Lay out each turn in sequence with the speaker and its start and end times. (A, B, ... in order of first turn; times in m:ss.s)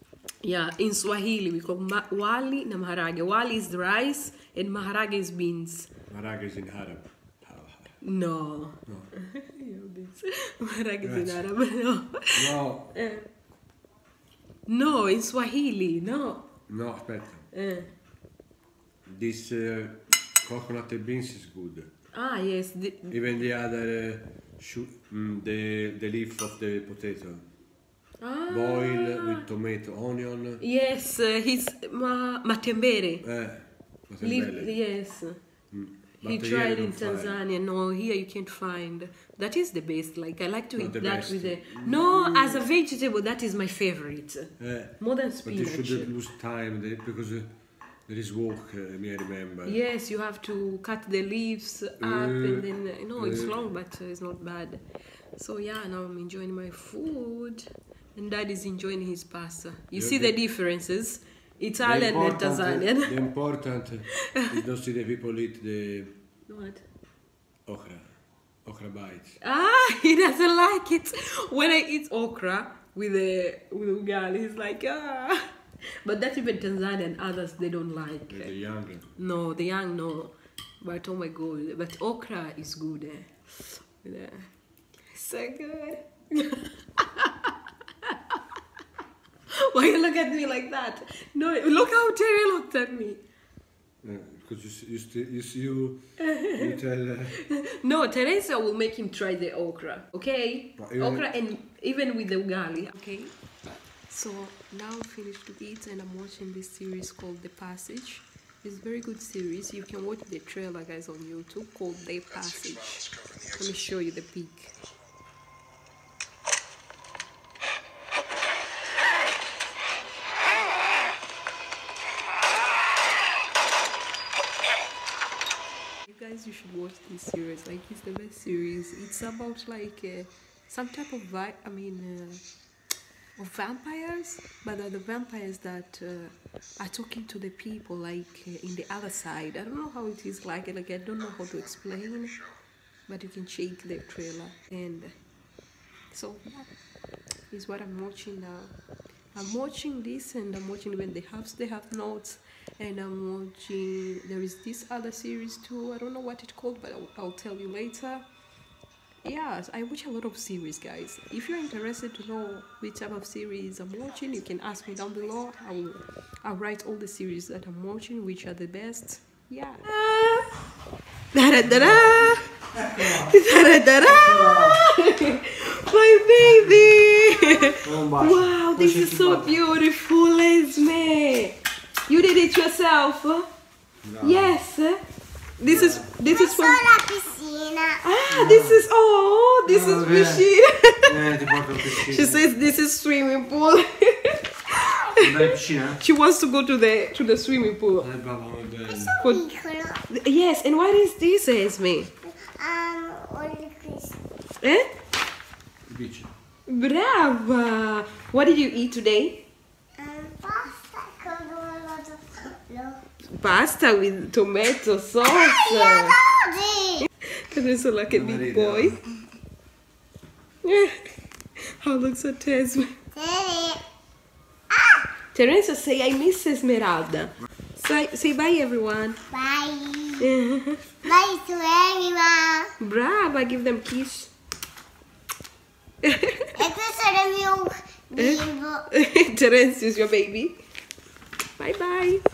0:00.4-0:05.9 A
0:06.1-0:08.0 B
0:08.0-0:13.3 A
0:11.0-0:11.4 B
0:12.4-0:12.9 B
0:14.7-0:16.5 A
0:16.7-0:17.5 B
0:17.5-0:17.9 A
0:19.1-0:21.9 B
0:22.1-0:23.2 A
0:23.1-0:27.4 B
0:28.2-0:29.5 A
0:28.5-0:30.6 B
0:30.6-0:33.3 A
0:33.2-0:34.8 B
0:34.2-0:35.4 A
0:35.7-0:37.4 B
0:36.2-0:46.1 A
0:40.8-0:42.6 B
0:44.6-0:47.5 B
0:48.1-0:49.8 B
0:49.6-0:54.8 A
0:52.0-0:53.6 B
0:55.4-1:03.2 A
1:00.0-1:00.3 B
1:01.8-1:06.1 B
1:04.2-1:04.6 A
1:06.5-1:06.8 A
1:07.7-1:08.1 B
1:08.6-1:09.4 B
1:09.4-1:15.5 A
1:16.0-1:18.5 A
1:18.3-1:19.1 B
1:19.2-1:24.5 A
1:25.1-1:28.4 A
1:29.5-1:33.2 A
1:34.0-1:37.4 B
1:36.2-1:36.8 A
1:37.4-1:43.4 A
1:40.8-1:41.3 B
1:44.1-1:54.8 A
2:06.1-2:12.4 A
2:13.4-2:22.4 A
2:23.1-2:25.1 A
2:26.1-2:26.7 A
2:27.5-2:28.7 A
2:29.4-2:38.2 A
2:39.2-2:50.4 A
2:51.3-3:03.5 A
2:51.7-2:52.2 B
2:53.0-2:53.2 B
2:54.0-2:54.8 B
2:56.4-2:56.9 B
2:57.8-2:59.6 B
3:04.0-3:04.6 B
3:04.2-3:05.0 A
3:05.6-3:07.0 A
3:05.6-3:06.1 B
3:06.3-3:08.0 C
3:08.0-3:11.2 A
3:08.3-3:08.8 B
3:09.7-3:10.5 B
3:11.1-3:12.4 B
3:11.9-3:18.1 A
3:15.2-3:16.0 B
3:18.0-3:19.2 B
3:18.9-3:20.0 C
3:19.2-3:19.5 A
3:20.1-3:22.1 A
3:22.2-3:24.2 C
3:24.6-3:24.9 A
3:25.9-3:26.3 B
3:26.7-3:29.4 A
3:30.0-3:33.0 C
3:33.2-3:36.2 A
3:35.3-3:37.1 C
3:37.2-3:39.0 A
3:38.1-3:39.0 B
3:40.6-3:41.1 A
3:41.7-3:42.9 A
3:43.2-3:43.8 C
3:44.7-3:45.1 C
3:45.3-3:49.2 A
3:49.3-3:50.3 C
3:50.2-3:51.0 A
3:51.0-3:52.7 C
3:52.8-3:54.3 A
3:56.0-3:56.6 A
3:56.6-3:58.8 C
3:58.2-4:00.6 A
4:01.6-4:02.2 A